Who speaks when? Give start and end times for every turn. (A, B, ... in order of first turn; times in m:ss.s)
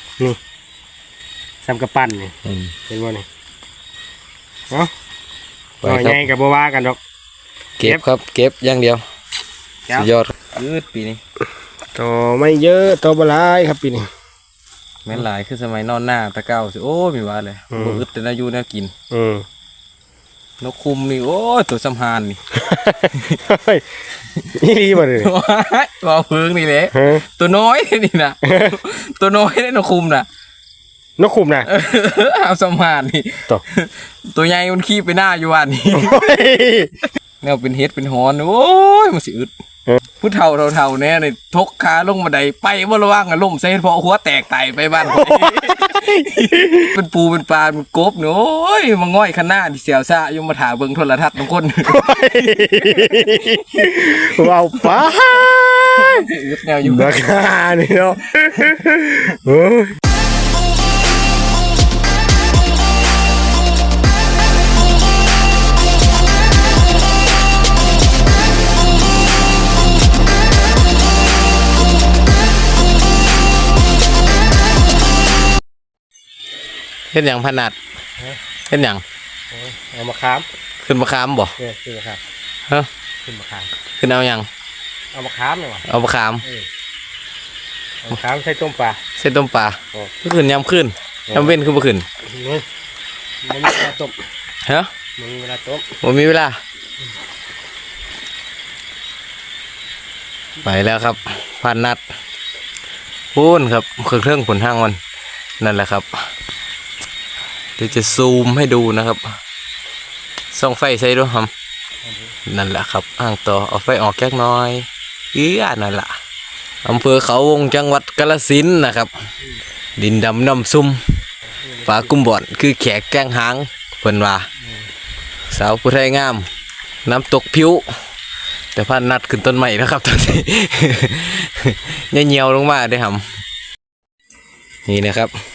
0:01.6-0:02.3 A
0:02.4-0:02.7 B
0:02.9-0:03.2 A
0:05.8-0:06.2 B
0:05.8-0:07.0 A
0:07.8-0:09.0 B
0:09.9-0:11.2 B
0:11.9-0:14.1 A
0:15.0-0:18.9 B
0:17.7-0:18.0 A
0:19.1-0:19.4 A
0:20.6-0:22.4 B
0:22.6-0:23.8 A
0:24.5-0:25.3 A
0:25.0-0:30.3 B
0:26.9-0:27.2 A
0:28.4-0:28.8 A
0:31.2-0:31.7 A
0:31.7-0:36.4 B
0:35.9-0:36.9 A
0:37.4-0:39.5 B
0:40.2-0:53.2 B
0:45.0-0:46.9 A
0:51.8-0:56.2 A
0:53.8-0:57.2 B
0:56.8-0:59.9 A
1:17.1-1:17.8 B
1:18.7-1:19.0 B
1:19.5-1:20.4 A
1:20.8-1:21.5 B
1:21.6-1:22.2 A
1:23.2-1:23.7 A
1:24.0-1:24.5 B
1:25.1-1:25.8 A
1:25.9-1:26.4 B
1:28.0-1:29.0 A
1:29.2-1:32.0 B
1:32.3-1:32.6 A
1:33.4-1:34.2 A
1:34.6-1:34.9 B
1:35.2-1:35.9 A
1:36.0-1:36.6 B
1:40.6-1:42.0 B
1:43.3-1:45.0 B
1:45.6-1:46.1 B
1:47.8-1:49.4 B
1:50.5-1:51.5 B
1:52.5-1:56.1 B
1:56.8-1:59.1 B
2:00.0-2:01.0 B
2:01.7-2:02.1 A
2:01.8-2:04.5 B
2:05.5-2:06.5 B
2:07.0-2:07.8 B
2:08.7-2:13.2 B
2:14.9-2:15.3 B